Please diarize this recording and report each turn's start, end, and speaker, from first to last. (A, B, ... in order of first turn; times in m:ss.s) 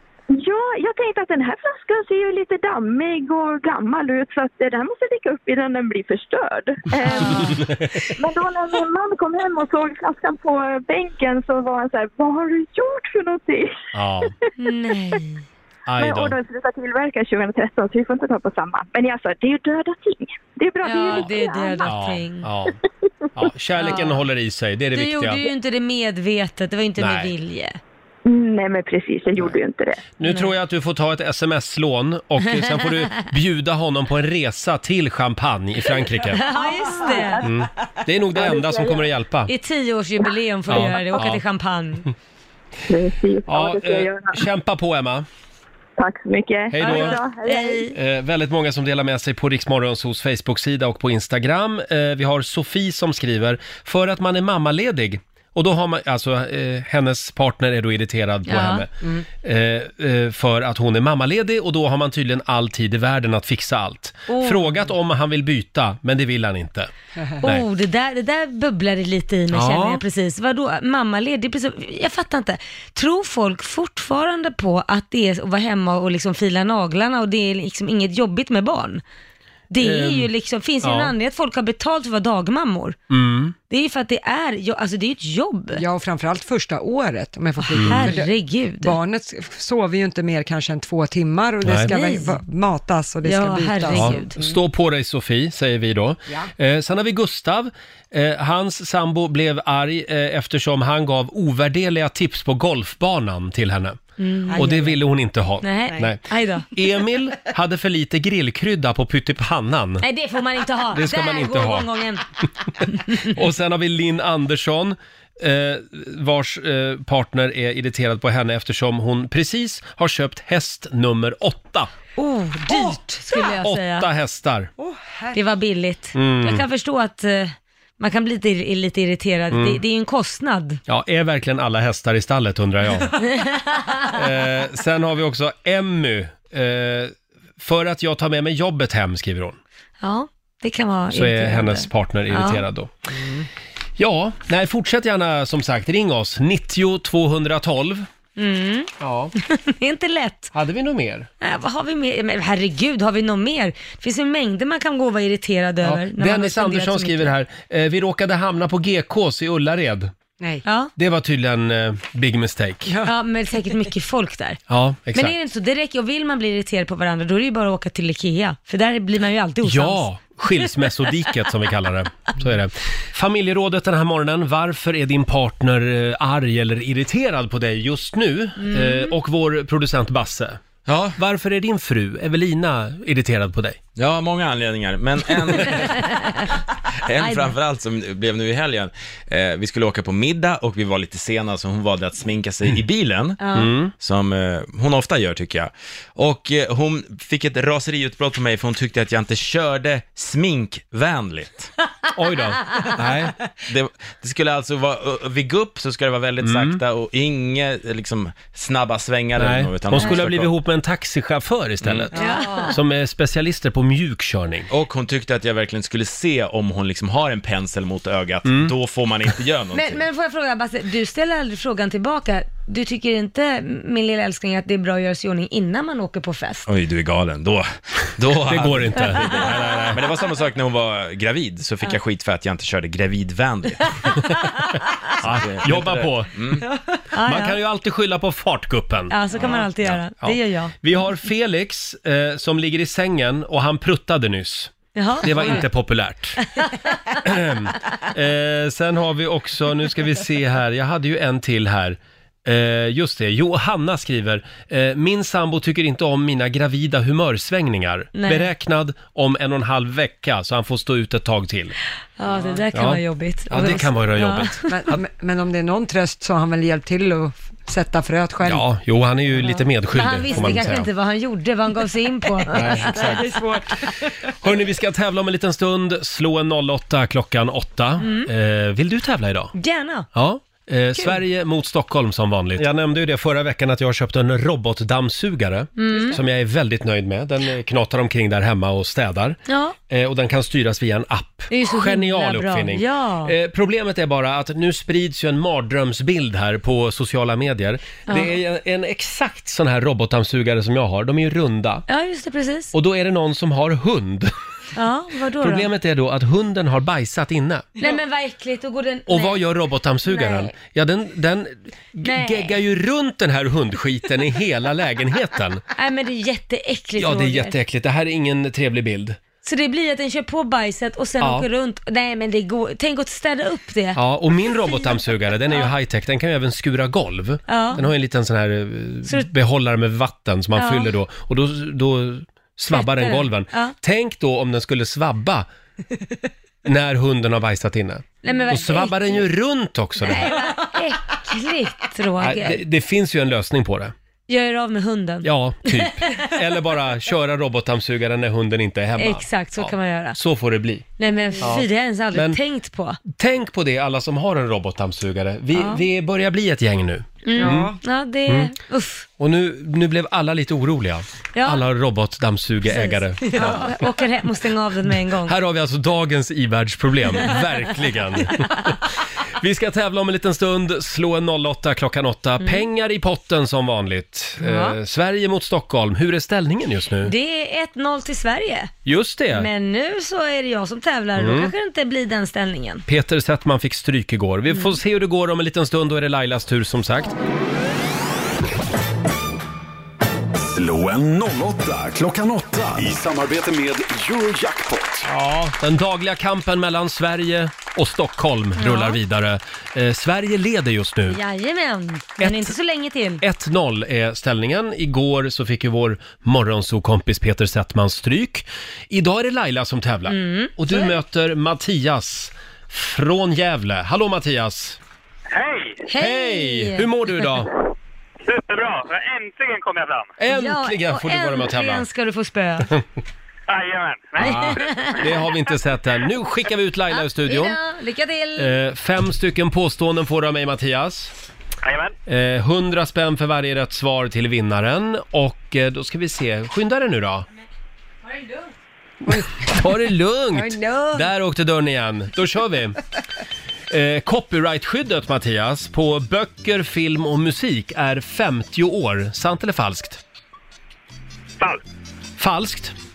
0:00.3-0:14.5 A
0:07.0-0:07.5 B
0:07.2-0:08.0 C
0:13.9-0:14.3 C
0:14.6-0:15.4 B
0:15.9-0:16.4 C
0:16.0-0:21.9 A
0:20.8-0:22.5 B
0:21.8-0:22.8 C
0:23.3-0:25.4 C
0:23.8-0:24.2 B
0:24.9-0:27.8 B
0:27.0-0:27.3 C
0:28.2-0:30.1 A
0:30.2-0:36.4 C
0:30.2-0:30.5 B
0:32.6-0:33.0 B
0:36.2-0:37.4 B
0:36.4-0:37.5 A
0:37.4-0:39.5 C
0:38.3-0:39.1 A
0:39.5-0:42.1 B
0:40.7-0:41.4 C
0:42.9-0:44.4 A
0:43.5-0:45.2 C
0:46.0-0:47.9 A
0:46.7-0:47.2 C
0:46.8-0:47.9 B
0:47.9-0:58.9 C
0:58.5-0:58.8 B
0:59.4-1:06.9 C
1:04.3-1:04.8 B
1:07.4-1:19.0 B
1:09.5-1:10.0 C
1:19.7-1:23.0 B
1:19.8-1:20.3 C
1:20.8-1:21.1 C
1:23.1-1:23.6 C
1:23.7-1:25.8 B
1:25.7-1:34.6 D
1:27.6-1:28.9 B
1:27.8-1:28.2 C
1:31.6-1:31.9 C
1:31.8-1:32.3 B
1:33.2-1:34.4 B
1:33.9-1:44.0 C
1:44.2-1:44.8 B
1:44.5-1:45.0 D
1:44.5-1:50.0 C
1:45.6-1:46.7 B
1:50.0-1:52.3 B
1:50.9-1:51.9 C
1:52.8-2:01.9 C
1:52.8-1:53.3 B
2:02.2-2:04.1 B
2:02.7-2:03.0 D
2:03.6-2:04.7 C
2:04.8-2:05.4 D
2:05.3-2:10.8 B
2:06.1-2:06.6 C
2:09.5-2:09.8 C
2:10.9-2:13.2 C
2:13.2-2:14.1 B
2:14.0-2:19.6 C
2:20.0-2:22.6 B
2:21.1-2:22.9 C
2:23.1-2:23.5 D
2:24.0-2:28.1 C
2:28.4-2:30.5 B
2:29.0-2:29.3 C
2:30.5-2:31.3 C
2:31.4-2:37.3 B
2:35.8-2:40.1 C
2:40.4-2:40.6 D
2:40.6-2:40.9 B
2:41.0-2:43.0 C
2:42.8-2:43.1 D
2:43.0-2:44.6 B
2:44.7-2:45.3 C
2:45.1-2:50.0 B
2:49.6-3:00.6 C
2:58.6-2:59.2 B
3:00.8-3:01.2 E
3:01.2-3:03.8 C
3:04.0-3:06.4 E
3:06.0-3:06.4 B
3:07.0-3:21.7 E
3:07.2-3:07.5 B
3:13.4-3:13.7 B
3:13.5-3:13.9 C
3:22.1-3:23.3 C
3:23.6-3:30.5 E
3:26.4-3:26.8 C
3:29.4-3:34.7 C
3:31.8-3:32.1 E
3:32.1-3:32.8 B
3:32.1-3:32.7 D
3:34.7-3:40.0 E
3:38.4-3:38.7 C
3:39.7-3:46.7 B
3:46.7-3:53.9 E
3:48.5-3:50.0 C
3:55.2-3:56.4 C
3:55.2-3:56.6 E
3:57.1-3:57.6 B
3:57.2-3:59.2 C
3:59.1-4:00.7 B
3:59.4-3:59.6 E
3:59.8-4:06.4 C
4:04.9-4:05.6 B
4:06.6-4:07.2 B
4:07.2-4:21.7 C
4:18.1-4:18.5 B
4:22.2-4:24.8 B
4:22.3-4:22.6 D
4:22.7-4:25.0 C
4:24.6-4:28.6 D
4:28.4-4:30.9 C
4:29.4-4:33.2 B
4:32.5-4:33.3 C
4:32.5-4:34.1 D
4:34.3-4:39.5 C
4:38.0-4:38.3 B
4:39.5-4:40.1 B
4:40.1-5:01.8 C
4:45.8-4:46.2 B
4:49.5-4:49.8 B
4:51.5-4:53.3 B
4:58.1-4:58.3 B
5:01.9-5:02.7 B
5:02.7-5:04.3 C
5:04.7-5:05.7 B
5:05.4-5:07.7 C
5:07.8-5:09.4 B
5:09.1-5:15.6 C
5:10.0-5:10.5 B
5:12.0-5:12.6 B
5:15.8-5:17.5 B
5:17.0-5:19.2 C
5:19.4-5:24.0 B
5:21.2-5:21.5 C
5:24.0-5:35.5 C
5:27.5-5:27.8 B
5:30.6-5:30.9 B
5:32.7-5:33.7 B
5:36.6-5:40.4 C
5:38.2-5:39.2 B
5:40.0-5:42.6 B
5:42.2-5:43.9 C
5:44.3-5:46.4 B
5:45.2-5:50.9 C
5:49.0-5:50.2 B
5:51.0-5:53.0 B
5:51.4-5:52.4 C
5:53.0-5:57.7 C
5:55.5-5:55.8 B
5:57.2-5:59.0 B
5:57.3-5:57.8 D
5:58.3-5:58.5 C
5:59.2-6:03.9 C
6:01.3-6:01.6 B
6:02.6-6:05.4 B
6:05.2-6:17.1 C
6:14.4-6:14.8 B
6:17.0-6:18.8 B
6:18.8-6:19.5 C
6:19.3-6:22.8 B
6:21.2-6:21.5 C
6:22.9-6:27.1 C
6:24.5-6:24.8 B
6:30.4-6:35.1 F
6:35.0-6:41.2 C
6:38.6-6:39.0 B
6:41.1-6:43.2 B
6:42.2-6:42.6 C
6:43.2-6:54.8 C
6:50.0-6:50.9 B
6:55.3-6:55.9 G
6:55.9-6:57.3 B
6:55.9-6:57.5 C
6:58.2-7:00.2 G
7:00.2-7:01.8 C
7:00.3-7:02.7 B
7:03.5-7:04.9 G
7:04.2-7:07.6 C
7:04.2-7:05.1 B
7:06.9-7:08.5 B
7:08.4-7:11.1 C
7:11.6-7:11.9 G
7:12.1-7:17.2 C
7:18.0-7:18.5 B
7:19.3-7:22.8 C
7:20.4-7:20.9 D
7:23.7-7:30.0 C
7:32.2-7:32.7 C